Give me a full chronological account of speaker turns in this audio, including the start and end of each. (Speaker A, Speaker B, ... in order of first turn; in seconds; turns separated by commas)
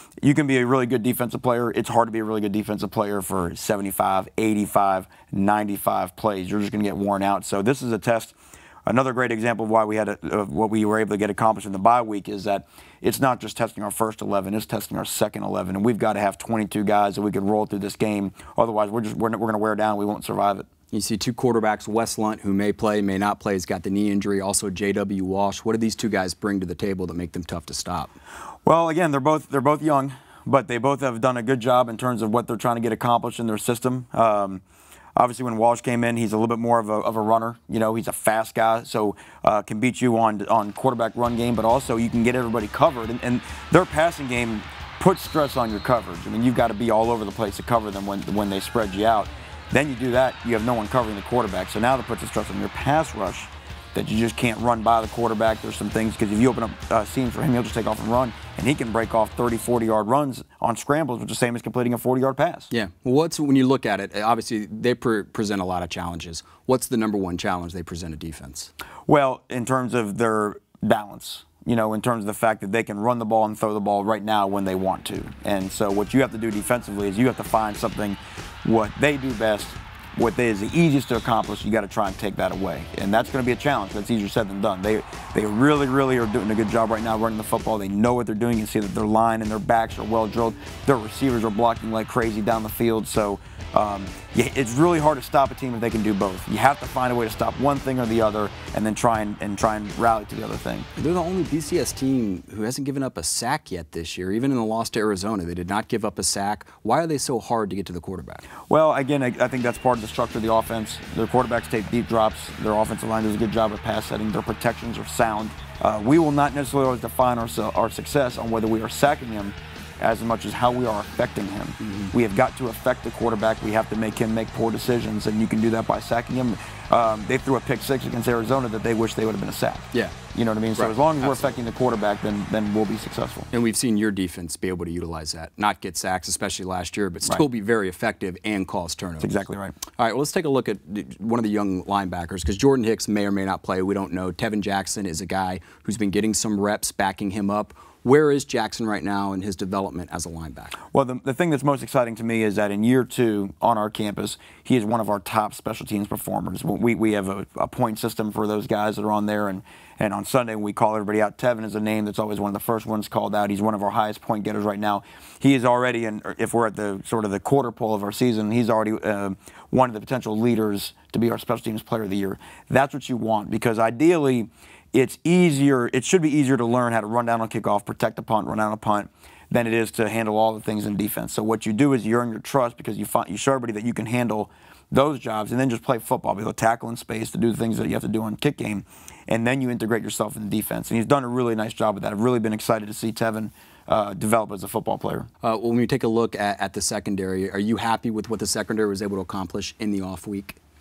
Speaker A: 0.2-8.3, Speaker A: 8.9-20.7, Speaker B: 20.9-28.1, Speaker A: 28.6-34.6, Speaker A: 35.2-62.7, Speaker B: 62.7-68.7, Speaker A: 69.1-100.9, Speaker B: 101.0-108.5, Speaker A: 108.7-133.5, Speaker B: 121.8-122.1, Speaker B: 130.8-131.6, Speaker B: 133.5-139.4, Speaker A: 139.2-139.8, Speaker B: 140.0-150.8, Speaker A: 150.9-195.3, Speaker B: 195.4-200.6